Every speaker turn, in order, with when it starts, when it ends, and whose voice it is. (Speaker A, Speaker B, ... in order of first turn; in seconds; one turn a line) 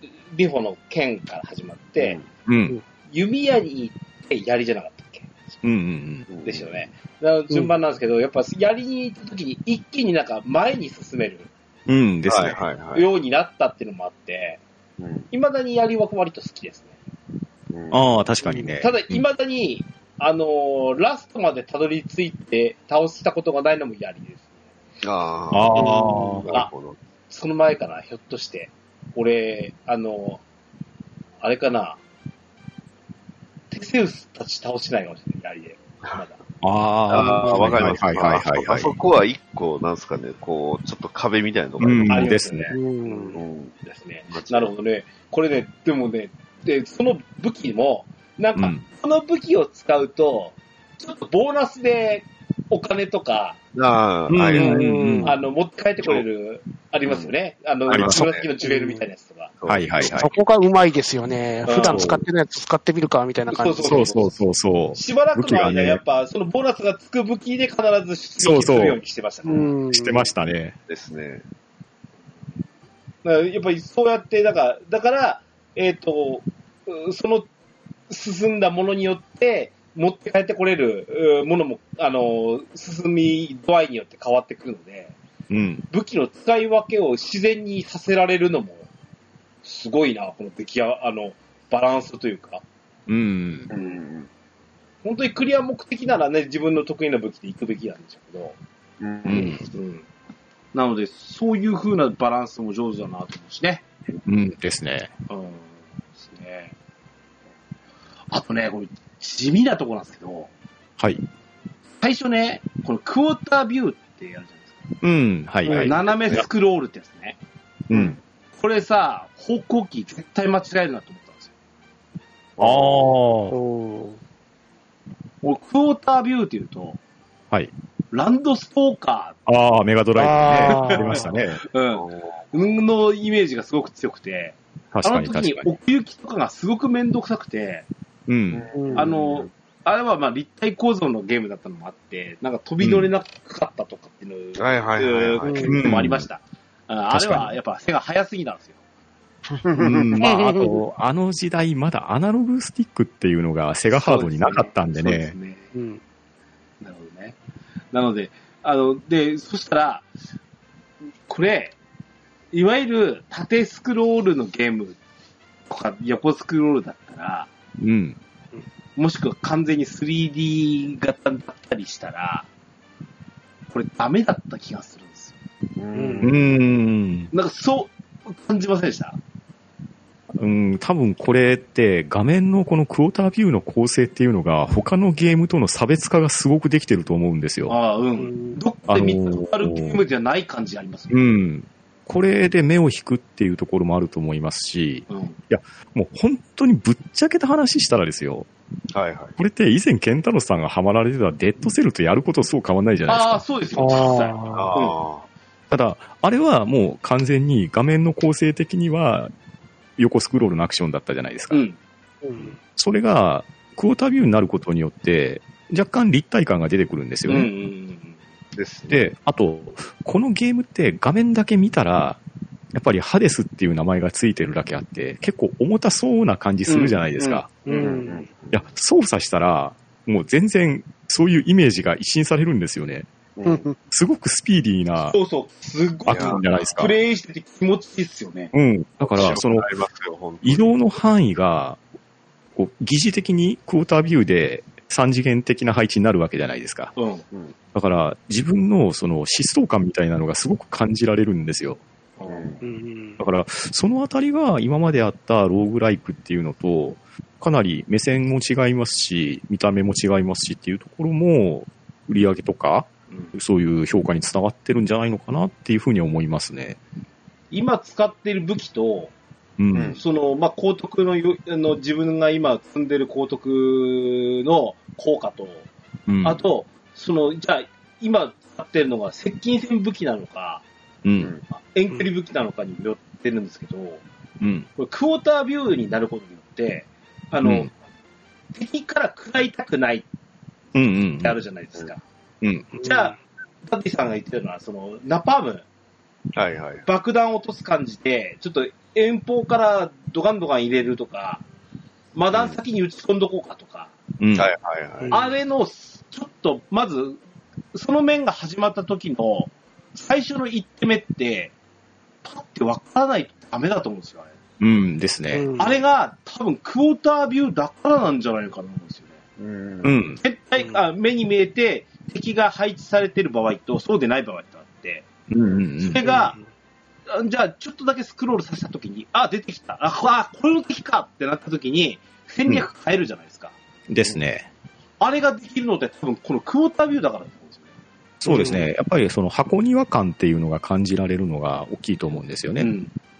Speaker A: 0.3-2.2
Speaker B: 2.0-2.3
Speaker C: 2.5-2.8
Speaker A: 3.1-5.4
Speaker C: 5.6-6.3
Speaker B: 6.3-6.7
Speaker A: 6.4-11.5
Speaker C: 11.9-12.6
Speaker B: 12.3-13.1
Speaker A: 12.9-14.6
Speaker B: 15.0-15.3
Speaker A: 15.3-16.9
Speaker B: 17.7-18.1
Speaker C: 17.9-19.2
Speaker A: 18.8-24.5
Speaker B: 25.0-27.0
Speaker C: 25.5-26.4
Speaker D: 25.7-26.4
Speaker A: 27.3-30.4
Speaker A: 31.4-32.0
Speaker A: 33.7-36.4
Speaker C: 36.6-38.9
Speaker B: 37.1-42.3
Speaker D: 37.5-37.7
Speaker C: 41.8-42.7
Speaker A: 42.1-53.6
Speaker D: 42.7-43.3
Speaker B: 43.3-43.7
Speaker B: 44.3-44.7
Speaker C: 48.6-48.8
Speaker B: 53.7-54.9
Speaker C: 54.3-55.3
Speaker D: 54.5-55.4
Speaker A: 55.2-59.5
Speaker B: 57.0-57.3
Speaker C: 57.9-58.2
Speaker B: 57.9-58.4
Speaker D: 58.1-59.0
Speaker B: 59.6-60.2
Speaker C: 59.7-60.3
Speaker D: 60.1-64.0
Speaker A: 61.6-62.1
Speaker C: 61.9-62.2
Speaker A: 63.5-64.4
Speaker C: 63.8-66.0
Speaker A: 64.9-69.7
Speaker C: 68.4-69.0
Speaker D: 69.5-70.3
Speaker C: 69.9-70.7
Speaker B: 70.9-71.4
Speaker A: 73.2-77.5
Speaker A: 78.1-85.1
Speaker C: 85.5-85.8
Speaker A: 85.9-88.8
Speaker A: 89.6-92.6
Speaker C: 93.1-93.7
Speaker B: 93.7-94.3
Speaker A: 95.0-98.5
Speaker B: 99.0-99.6
Speaker C: 99.2-99.6
Speaker A: 99.3-100.0
Speaker A: 100.7-103.9
Speaker C: 104.2-105.1
Speaker A: 105.3-106.7
Speaker A: 108.3-110.5
Speaker C: 111.0-111.2
Speaker A: 112.0-114.8
Speaker C: 115.0-116.4
Speaker D: 115.6-115.9
Speaker A: 115.8-117.4
Speaker C: 117.9-118.2
Speaker B: 117.9-118.2
Speaker A: 118.5-121.5
Speaker B: 122.6-123.1
Speaker C: 122.6-123.6
Speaker D: 123.5-124.2
Speaker A: 125.4-127.0
Speaker A: 128.1-129.4
Speaker C: 129.4-131.6
Speaker D: 130.2-131.2
Speaker A: 130.6-137.9
Speaker B: 131.9-132.4
Speaker C: 134.9-135.7
Speaker C: 138.3-138.7
Speaker B: 138.5-139.5
Speaker D: 138.7-139.0
Speaker A: 138.9-148.8
Speaker C: 142.8-143.1
Speaker B: 144.6-145.8
Speaker D: 145.4-145.7
Speaker C: 145.7-146.3
Speaker C: 147.1-147.5
Speaker B: 149.5-150.1
Speaker C: 149.8-155.3
Speaker D: 150.2-150.8
Speaker A: 153.9-155.7
Speaker D: 155.7-156.0
Speaker A: 156.8-157.4
Speaker A: 157.9-160.1
Speaker A: 161.3-161.7
Speaker A: 162.5-165.0
Speaker A: 165.7-167.5
Speaker C: 167.8-168.2
Speaker A: 168.9-172.5
Speaker A: 173.7-175.3
Speaker B: 175.8-176.6
Speaker D: 175.9-176.3
Speaker C: 176.2-177.3
Speaker A: 177.3-179.2
Speaker C: 180.4-187.7
Speaker A: 187.7-191.2
Speaker D: 188.2-188.6
Speaker C: 188.9-190.0
Speaker C: 191.1-198.5
Speaker A: 195.1-195.4
Speaker B: 198.9-199.4
Speaker C: 199.4-203.4
Speaker A: 203.1-205.0
Speaker D: 203.8-204.7
Speaker B: 204.5-205.2
Speaker C: 205.7-209.3
Speaker C: 210.0-211.6
Speaker A: 211.5-211.8
Speaker D: 212.2-212.5
Speaker C: 212.8-217.5
Speaker A: 217.3-218.2
Speaker B: 218.5-219.0
Speaker C: 218.9-222.2
Speaker C: 222.7-227.5
Speaker A: 226.7-228.0
Speaker D: 227.7-228.2
Speaker B: 227.7-228.6
Speaker C: 228.5-233.1
Speaker B: 233.3-233.7
Speaker D: 233.4-233.7
Speaker C: 233.9-235.2
Speaker A: 235.0-238.5
Speaker C: 236.1-236.9
Speaker B: 236.1-236.4
Speaker C: 238.5-239.7
Speaker B: 239.0-240.7
Speaker C: 240.4-241.8
Speaker C: 242.5-246.9
Speaker A: 246.9-247.2
Speaker C: 247.7-251.8
Speaker A: 252.2-252.6
Speaker B: 252.2-252.6
Speaker D: 252.6-253.2
Speaker C: 253.2-266.8
Speaker A: 267.5-269.1
Speaker C: 269.6-270.0
Speaker B: 269.7-270.0
Speaker A: 270.0-275.6
Speaker C: 276.1-276.4
Speaker A: 276.2-280.6
Speaker C: 281.0-281.3
Speaker A: 281.5-284.0
Speaker C: 284.4-284.7
Speaker A: 284.8-287.7
Speaker C: 287.4-287.7
Speaker A: 288.5-290.1
Speaker C: 290.7-291.4
Speaker A: 291.2-292.0
Speaker C: 292.4-292.7
Speaker D: 292.7-293.1
Speaker A: 292.8-295.6
Speaker B: 296.3-296.9
Speaker A: 296.8-301.4
Speaker A: 302.1-303.9
Speaker B: 302.3-302.6
Speaker C: 304.2-304.5
Speaker B: 304.3-305.2
Speaker A: 305.1-307.2
Speaker A: 307.7-311.5
Speaker A: 312.2-314.3
Speaker C: 314.6-315.4
Speaker D: 315.3-315.8
Speaker A: 315.6-319.1
Speaker B: 319.4-319.9
Speaker C: 319.8-320.2
Speaker A: 320.2-325.0
Speaker C: 325.3-326.0
Speaker A: 325.8-326.4
Speaker D: 326.0-326.4
Speaker A: 327.1-333.5
Speaker C: 333.9-334.5
Speaker A: 335.0-337.7
Speaker C: 338.2-342.7
Speaker D: 338.2-338.6
Speaker A: 342.6-342.9